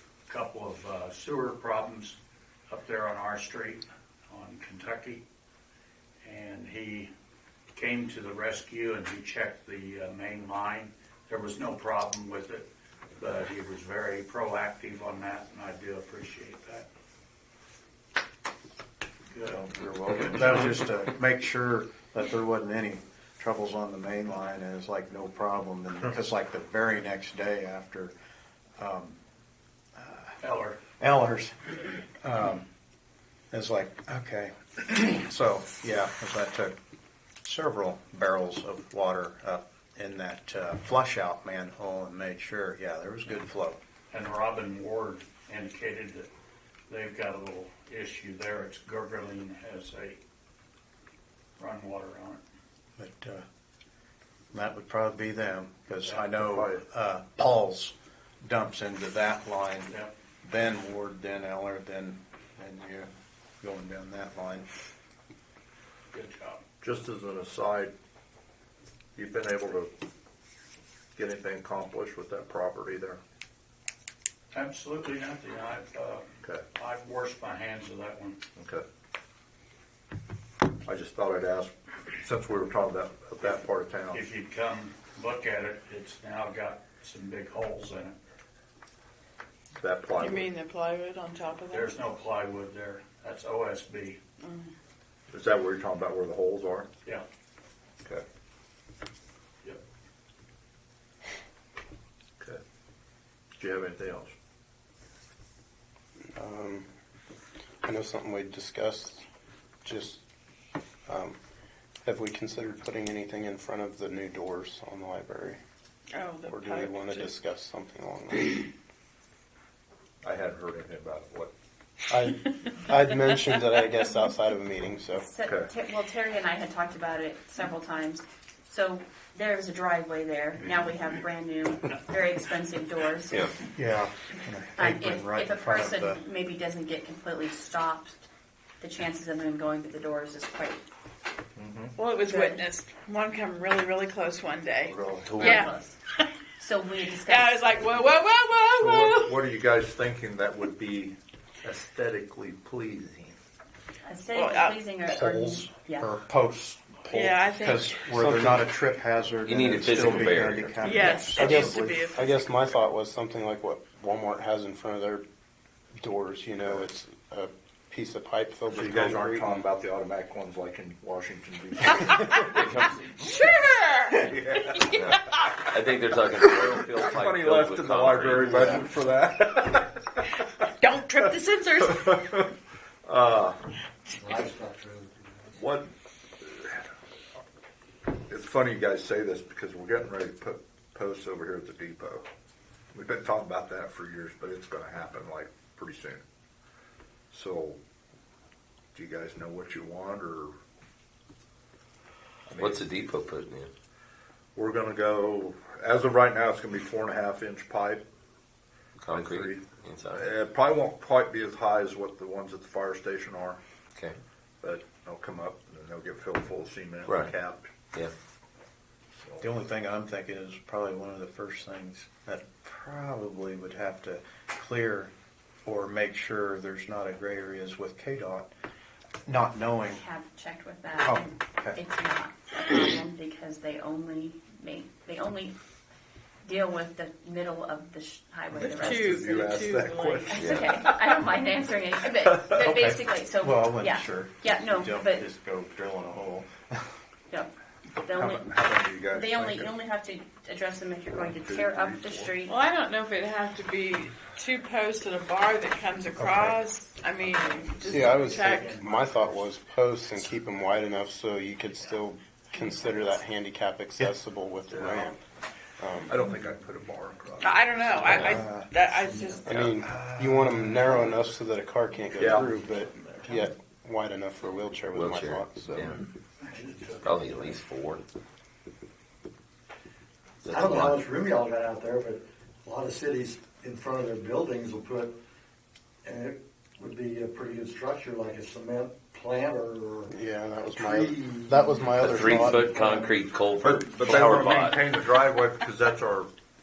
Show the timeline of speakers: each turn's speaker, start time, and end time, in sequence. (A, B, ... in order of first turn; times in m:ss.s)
0:00.3-0:02.2 A
0:02.7-0:05.2 A
0:06.2-0:07.1 A
0:07.7-0:16.9 A
0:19.3-0:19.7 A
0:19.5-0:28.1 B
0:28.8-0:29.2 B
0:30.0-0:30.4 B
0:30.4-0:30.8 A
0:31.0-0:32.7 B
0:33.5-0:36.8 B
0:37.4-0:43.8 B
0:44.1-0:46.3 A
0:46.9-0:50.2 A
0:51.6-0:52.4 A
0:53.0-0:53.4 B
0:54.5-1:03.1 B
0:56.3-0:56.8 C
1:03.6-1:04.6 B
1:06.1-1:06.6 A
1:06.8-1:07.9 C
1:09.2-1:09.9 C
1:11.2-1:13.2 C
1:14.5-1:18.4 A
1:18.6-1:18.8 C
1:20.9-1:21.7 C
1:22.2-1:24.2 C
1:24.1-1:28.2 A
1:29.8-1:30.5 C
1:30.2-1:32.0 D
1:31.7-1:34.2 A
1:34.4-1:34.7 D
1:35.3-1:36.9 C
1:43.6-1:44.3 C
1:46.4-1:46.9 E
1:47.8-1:49.2 E
1:49.8-1:50.2 E
1:51.1-1:51.4 E
1:52.0-1:55.6 E
1:56.1-1:57.3 D
1:56.5-1:58.7 E
2:00.2-2:01.5 C
2:02.1-2:05.3 E
2:05.2-2:13.6 F
2:05.5-2:05.7 C
2:13.7-2:16.2 B
2:14.8-2:18.3 F
2:18.8-2:20.8 F
2:21.6-2:21.9 C
2:22.0-2:26.3 D
2:24.9-2:25.7 B
2:25.3-2:25.9 F
2:26.6-2:27.5 F
2:27.3-2:29.4 D
2:28.8-2:33.3 C
2:33.1-2:33.4 G
2:34.1-2:36.0 F
2:34.3-2:34.9 D
2:35.1-2:42.1 B
2:37.1-2:38.0 D
2:38.1-2:38.7 E
2:39.4-2:40.8 G
2:40.8-2:42.2 D
2:41.3-2:45.2 E
2:46.0-2:49.7 E
2:48.8-2:52.9 C
2:49.0-2:49.8 G
2:52.5-2:52.9 G
2:53.0-2:55.6 D
2:54.2-2:54.9 C
2:54.9-2:58.9 G
2:57.1-3:00.2 C
3:01.2-3:02.5 C
3:03.0-3:03.6 C
3:04.2-3:05.5 H
3:04.2-3:04.9 C
3:05.6-3:05.9 C
3:06.4-3:06.8 C
3:08.3-3:12.2 C
3:12.9-3:16.2 C
3:15.5-3:15.8 G
3:17.3-3:17.8 C
3:19.0-3:20.5 C
3:22.5-3:22.8 C
3:22.5-3:23.7 G
3:24.6-3:28.0 C
3:29.0-3:30.4 G
3:29.1-3:29.6 C
3:30.1-3:33.6 C
3:34.6-3:37.7 C
3:37.0-3:37.3 G
3:39.4-3:45.1 B
3:45.6-3:48.5 B
3:49.3-3:50.0 B
3:50.0-3:51.3 F
3:51.0-3:51.8 B
3:51.8-3:55.6 F
3:56.4-3:59.2 F
3:58.5-3:59.2 B
3:58.6-4:00.7 D
3:59.2-4:01.2 C
4:00.3-4:03.7 F
4:00.4-4:00.6 G
4:02.5-4:06.9 B
4:04.6-4:04.9 F
4:08.0-4:09.7 C
4:08.1-4:08.5 B
4:08.1-4:08.4 F
4:09.1-4:12.5 F
4:11.1-4:12.4 C
4:12.5-4:18.8 D
4:16.2-4:16.6 B
4:17.2-4:19.4 A
4:17.9-4:25.2 E
4:24.8-4:25.1 C
4:25.8-4:26.2 E
4:26.1-4:28.1 C
4:27.4-4:29.6 D
4:28.1-4:28.7 B
4:29.4-4:35.9 E
4:29.8-4:30.9 B
4:32.2-4:32.5 C
4:34.9-4:36.0 G
4:36.5-4:36.9 H
4:36.6-4:37.0 A
4:37.0-4:38.0 G
4:40.4-4:41.0 G
4:40.6-4:45.1 H
4:40.8-4:42.1 C
4:42.7-4:44.9 C
4:46.0-4:50.1 H
4:46.8-4:48.7 C
4:50.1-4:53.0 E
4:50.8-4:52.0 H
4:52.0-4:55.0 G
4:53.6-4:56.3 C